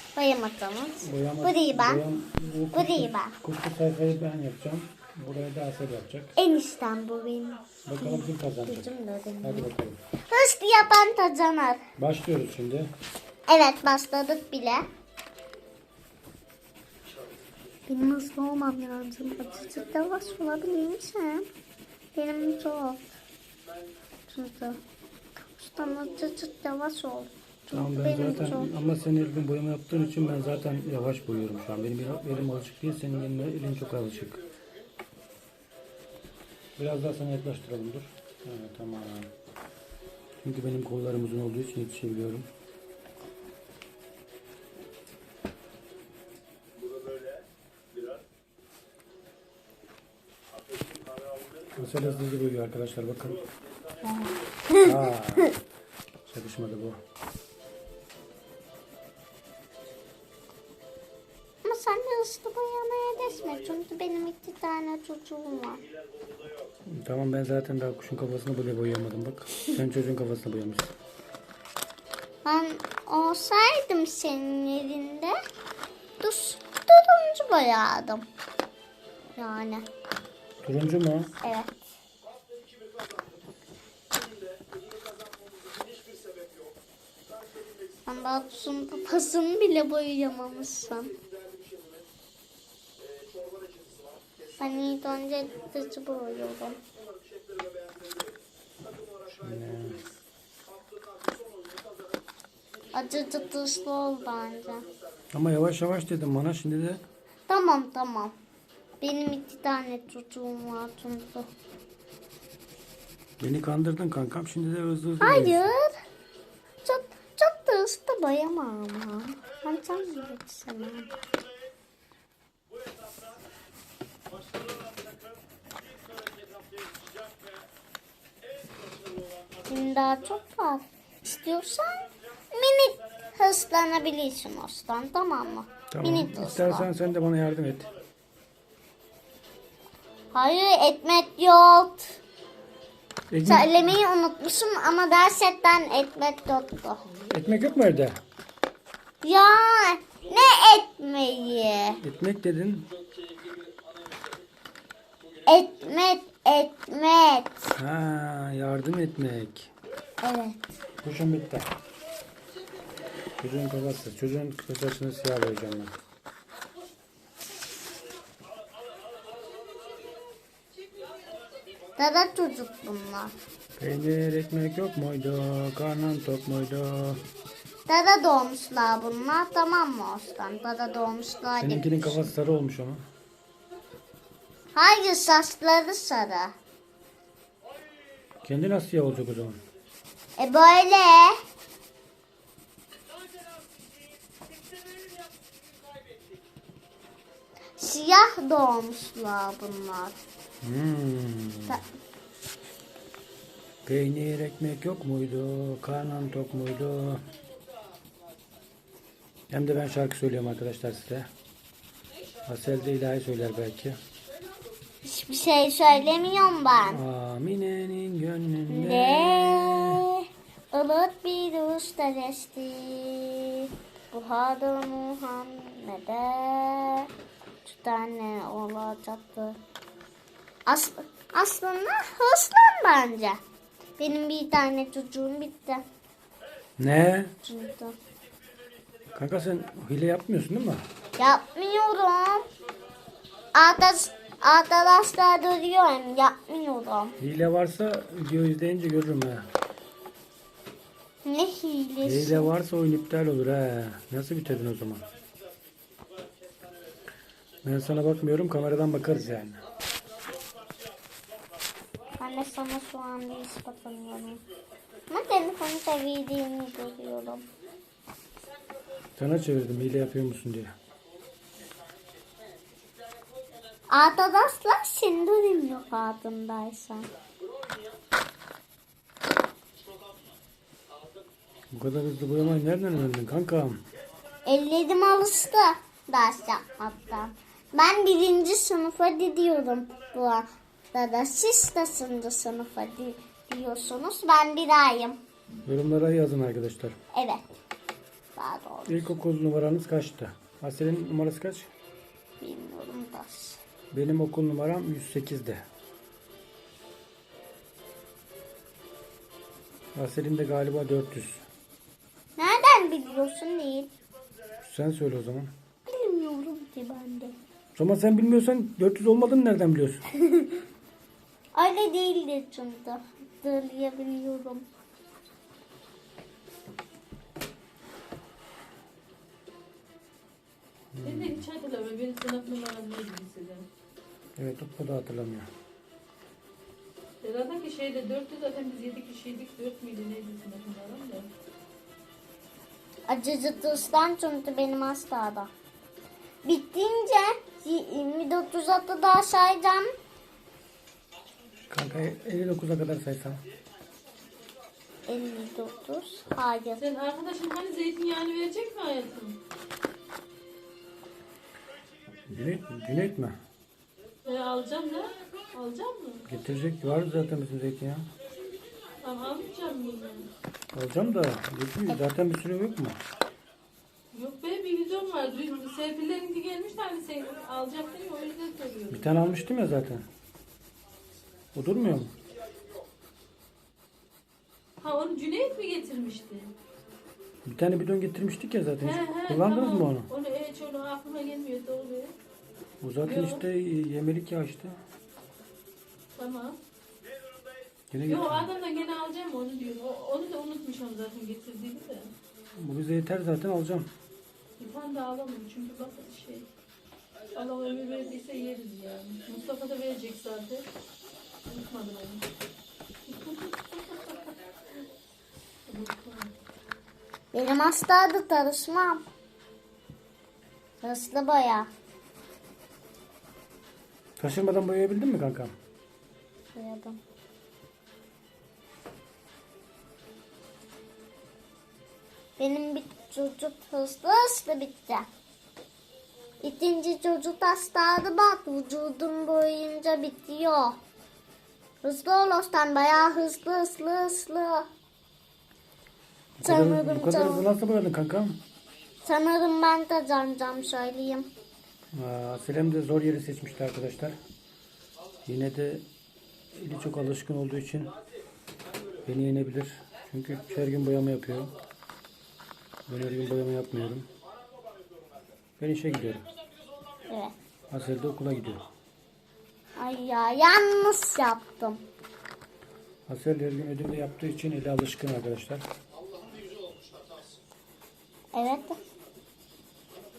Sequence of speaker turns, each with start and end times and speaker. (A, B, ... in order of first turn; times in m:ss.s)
0:00.2-0:02.0 A
0:01.0-0:06.4 B
0:02.7-0:03.4 A
0:06.4-0:09.7 A
0:07.9-0:08.9 B
0:09.4-0:10.0 B
0:10.3-0:11.8 A
0:12.0-0:12.9 B
0:13.5-0:14.8 A
0:17.9-0:21.5 A
0:22.2-0:23.0 A
0:24.3-0:24.8 A
0:25.4-0:28.7 A
0:27.7-0:34.4 B
0:36.8-0:39.3 B
0:40.4-0:42.5 B
0:51.8-0:53.4 B
0:54.0-0:55.5 A
0:54.8-0:55.6 B
0:56.3-0:57.0 B
1:01.6-1:05.8 A
1:06.9-1:10.9 B
1:12.4-1:15.4 A
1:16.2-1:18.2 A
1:19.4-1:19.8 A
1:20.6-1:21.3 B
1:21.4-1:21.9 A
1:28.1-1:31.1 A
1:34.6-1:36.8 A
1:39.3-1:40.0 B
1:42.9-1:44.9 A
1:45.3-1:47.0 B
1:47.5-1:48.3 A
1:49.0-1:51.5 A
1:53.4-1:55.7 B
1:55.2-1:55.9 A
1:56.8-2:01.1 A
2:09.7-2:16.9 A
2:15.9-2:17.9 B
2:20.3-2:22.2 A
2:23.3-2:23.9 B
2:23.4-2:27.0 A
2:27.3-2:28.2 B
2:29.2-2:32.0 A
2:32.0-2:32.9 B
2:35.5-2:37.7 A
2:37.8-2:39.7 B
2:40.2-2:40.6 A
2:41.0-2:41.7 B
2:43.4-2:46.0 B
2:52.0-2:53.4 A
2:53.8-2:57.2 B
2:57.9-3:02.3 A
3:01.6-3:03.0 B
3:04.7-3:06.5 A
3:08.4-3:09.6 B
3:10.4-3:11.4 A
3:17.8-3:20.2 A
3:20.6-3:21.8 B
3:23.8-3:27.2 B
3:29.5-3:31.3 B
3:32.5-3:34.0 B
3:35.0-3:37.0 A
3:36.9-3:40.0 B
3:38.7-3:47.1 A
3:47.6-3:49.6 A
3:50.7-3:53.4 A
3:54.0-3:55.8 A
3:56.8-3:57.3 B
3:57.4-3:58.0 A
3:59.1-4:00.8 B
4:01.2-4:02.5 A
4:03.6-4:07.2 A
4:07.2-4:09.5 B
4:11.2-4:12.5 A
4:12.0-4:15.1 B
4:17.6-4:19.6 B
4:22.2-4:24.4 A
4:25.1-4:27.5 A
4:29.2-4:30.7 B
4:33.9-4:37.1 A
4:41.7-4:43.8 B
4:44.5-4:55.2 A
4:55.7-4:57.0 B
4:57.1-4:57.4 A
4:58.4-4:59.2 A
4:58.9-5:01.7 B
5:02.4-5:03.6 A
5:03.9-5:05.6 B
5:10.0-5:11.4 B
5:12.4-5:13.9 A
5:14.6-5:15.5 B
5:15.9-5:17.4 A
5:17.8-5:20.0 B
5:20.2-5:20.5 A
5:21.6-5:24.7 A
5:30.9-5:31.4 B
5:31.0-5:33.6 C
5:34.4-5:35.5 B
5:37.2-5:41.3 C
5:43.1-5:45.5 A
5:46.4-5:49.9 A
5:51.7-5:53.4 B
5:55.1-5:56.8 A
5:56.8-5:59.4 C
6:02.3-6:03.4 B
6:04.2-6:06.3 C
6:06.3-6:08.1 B
6:09.0-6:10.3 C
6:10.7-6:13.0 B
6:14.1-6:19.1 C
6:18.9-6:20.1 B
6:21.5-6:22.1 B
6:24.8-6:26.5 C
6:27.4-6:30.1 B
6:28.8-6:32.2 C
6:32.8-6:34.8 B
6:33.0-6:33.4 C
6:36.2-6:36.6 C
6:37.9-6:38.5 B
6:38.1-6:42.1 C
6:42.6-6:43.9 B
6:44.6-6:46.5 C
6:47.3-6:50.7 C
6:51.5-6:52.2 C
6:53.1-6:54.3 C
6:55.7-6:56.3 C
6:57.3-6:59.0 A
7:00.8-7:01.7 A
7:04.2-7:05.5 B
7:06.6-7:07.0 A
7:12.4-7:15.1 A
7:16.4-7:20.8 A
7:21.8-7:24.6 A
7:26.4-7:28.4 B
7:26.4-7:27.4 A
7:29.0-7:31.3 A
7:31.9-7:34.2 B
7:35.3-7:35.8 B
7:36.5-7:38.0 B
7:39.0-7:41.5 B
7:42.9-7:44.1 B
7:45.6-7:46.2 B
7:47.7-7:48.7 B
7:49.8-7:51.8 A
7:53.1-7:55.6 B
7:58.3-7:58.8 A